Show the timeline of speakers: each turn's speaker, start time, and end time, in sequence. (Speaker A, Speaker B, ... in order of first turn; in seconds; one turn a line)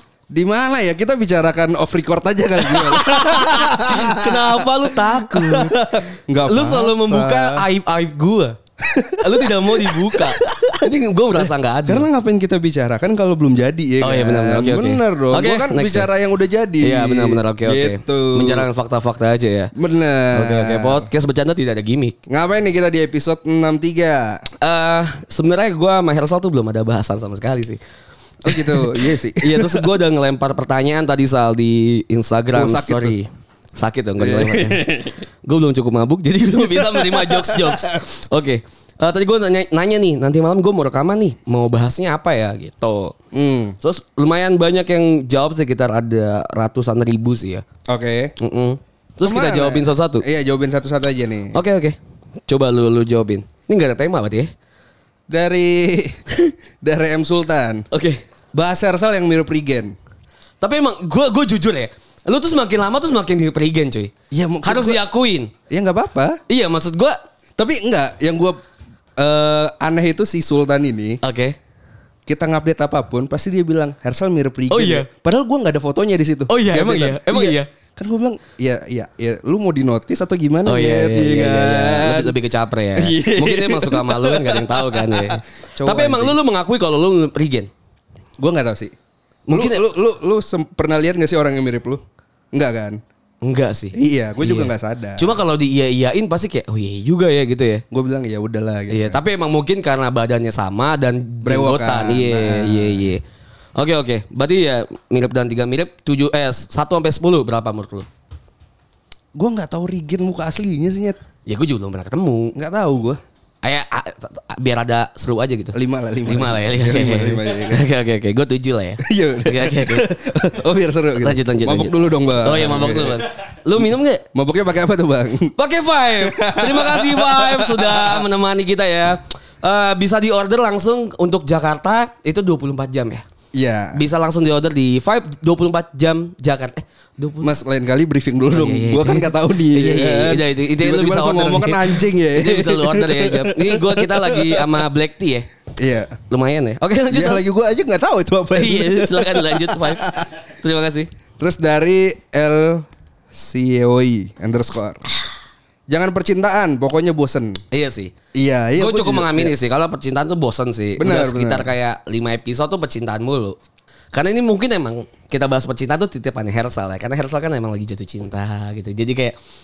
Speaker A: 0.3-7.7
Speaker B: 2.6-5.8
Speaker B: 6.4-8.6
Speaker A: 8.8-18.7
Speaker B: 9.2-12.1
Speaker B: 14.0-16.1
Speaker B: 16.8-19.7
Speaker A: 19.8-21.1
Speaker B: 20.3-22.2
Speaker A: 22.3-24.4
Speaker B: 24.6-27.8
Speaker A: 28.4-29.9
Speaker B: 28.5-34.9
Speaker A: 32.5-33.1
Speaker A: 34.2-35.1
Speaker B: 35.5-43.1
Speaker A: 36.6-38.0
Speaker A: 43.3-43.8
Speaker B: 43.8-47.7
Speaker A: 47.9-48.4
Speaker B: 48.4-50.2
Speaker A: 49.2-51.6
Speaker B: 51.5-54.5
Speaker A: 55.3-56.2
Speaker A: 56.8-57.9
Speaker B: 57.9-58.2
Speaker A: 58.5-60.0
Speaker B: 60.6-65.5
Speaker A: 64.3-65.0
Speaker A: 65.7-66.4
Speaker B: 66.5-67.2
Speaker A: 67.6-68.6
Speaker A: 69.2-71.2
Speaker B: 71.2-71.6
Speaker A: 72.3-82.4
Speaker B: 74.7-75.1
Speaker B: 76.5-77.7
Speaker B: 80.7-87.7
Speaker A: 83.0-86.4
Speaker A: 88.4-88.9
Speaker B: 89.5-89.9
Speaker A: 89.5-92.0
Speaker A: 92.5-93.0
Speaker B: 93.4-97.8
Speaker A: 93.9-95.3
Speaker A: 97.9-99.2
Speaker B: 98.9-103.2
Speaker A: 101.5-103.1
Speaker B: 103.8-108.1
Speaker A: 109.3-111.2
Speaker B: 111.5-112.5
Speaker A: 112.5-113.2
Speaker B: 113.6-120.1
Speaker A: 115.7-117.8
Speaker A: 119.0-123.2
Speaker B: 121.2-124.2
Speaker A: 124.3-125.5
Speaker B: 125.6-133.2
Speaker A: 126.2-128.3
Speaker A: 133.5-134.0
Speaker B: 133.9-137.6
Speaker A: 137.4-144.8
Speaker B: 138.5-145.5
Speaker A: 145.8-146.2
Speaker B: 146.3-147.4
Speaker A: 147.1-150.2
Speaker B: 148.5-151.1
Speaker A: 151.4-155.0
Speaker A: 155.9-157.6
Speaker B: 157.7-158.1
Speaker A: 158.3-159.6
Speaker B: 158.8-163.6
Speaker A: 161.0-161.7
Speaker B: 164.1-169.3